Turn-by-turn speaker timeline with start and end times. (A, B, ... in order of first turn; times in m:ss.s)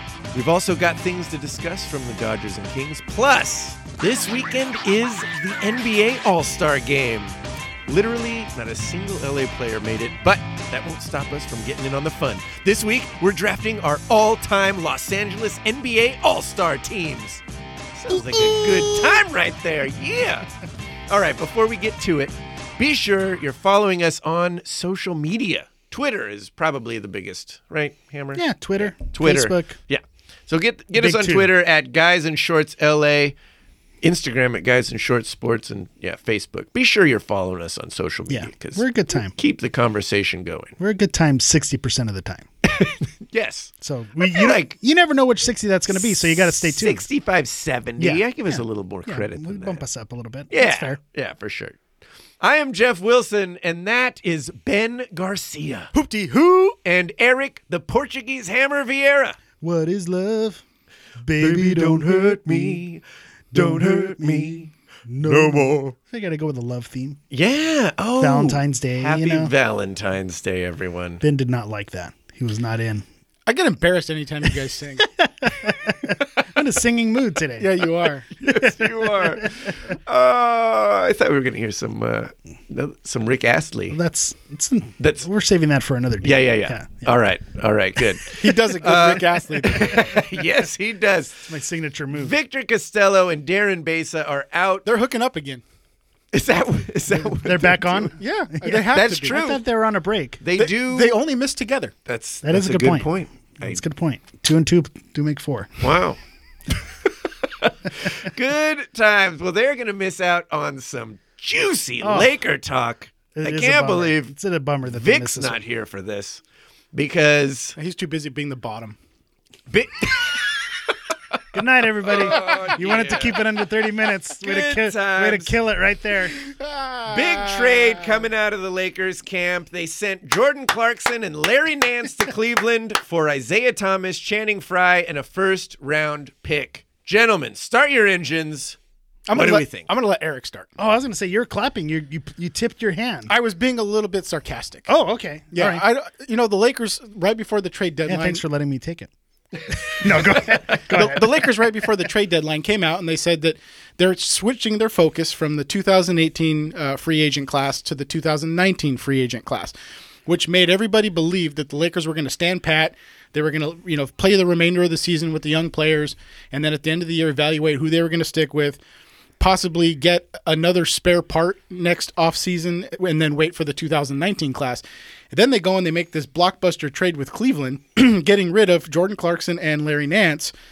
0:00.3-0:07.4 A
0:07.9-0:17.4 A
0:17.9-0:20.5 A
0:18.1-0:19.1 B
0:21.1-0:33.3 A
0:28.3-0:29.8 B
0:30.9-0:31.5 B
0:34.0-0:40.7 A
0:38.3-0:39.3 B
0:40.8-0:42.5 B
0:42.6-0:44.8 A
0:43.8-0:47.0 B
0:46.0-0:49.8 A
0:48.0-0:51.0 B
0:50.5-0:51.8 A
0:52.4-0:55.9 A
0:55.9-0:56.8 C
0:56.8-0:59.4 A
0:59.6-1:00.6 B
1:01.2-1:02.8 B
1:01.4-1:03.0 A
1:03.5-1:04.7 A
1:03.5-1:07.2 B
1:05.2-1:05.9 A
1:07.3-1:11.2 A
1:08.2-1:09.5 B
1:11.2-1:13.0 B
1:13.5-1:15.1 C
1:15.0-1:17.7 B
1:17.6-1:18.2 C
1:18.4-1:24.0 A
1:18.6-1:19.7 B
1:23.9-1:27.1 B
1:25.0-1:25.3 A
1:26.2-1:31.5 A
1:28.3-1:30.0 C
1:31.4-1:32.4 B
1:32.1-1:34.9 A
1:34.8-1:35.6 C
1:36.3-1:38.1 A
1:37.1-1:40.4 B
1:38.1-1:39.4 C
1:38.9-1:39.6 A
1:40.4-1:41.2 A
1:40.6-1:41.9 C
1:42.0-1:43.8 A
1:42.4-1:45.8 B
1:45.8-1:46.2 A
1:47.6-1:54.3 A
1:52.0-1:52.3 B
1:53.3-1:55.6 B
1:54.9-1:56.4 A
1:56.9-1:57.8 A
1:57.8-1:59.0 C
1:59.7-2:00.9 A
2:01.5-2:06.3 B
2:02.0-2:03.4 A
2:02.3-2:02.7 C
2:04.4-2:05.5 A
2:06.4-2:08.0 C
2:07.0-2:18.8 A
2:19.3-2:20.7 C
2:19.3-2:19.9 A
2:20.8-2:23.3 B
2:23.3-2:24.9 C
2:24.9-2:25.8 B
2:25.5-2:28.4 C
2:28.1-2:29.1 B
2:29.9-2:31.4 B
2:30.9-2:39.7 C
2:40.2-2:48.8 C
2:49.4-3:00.5 C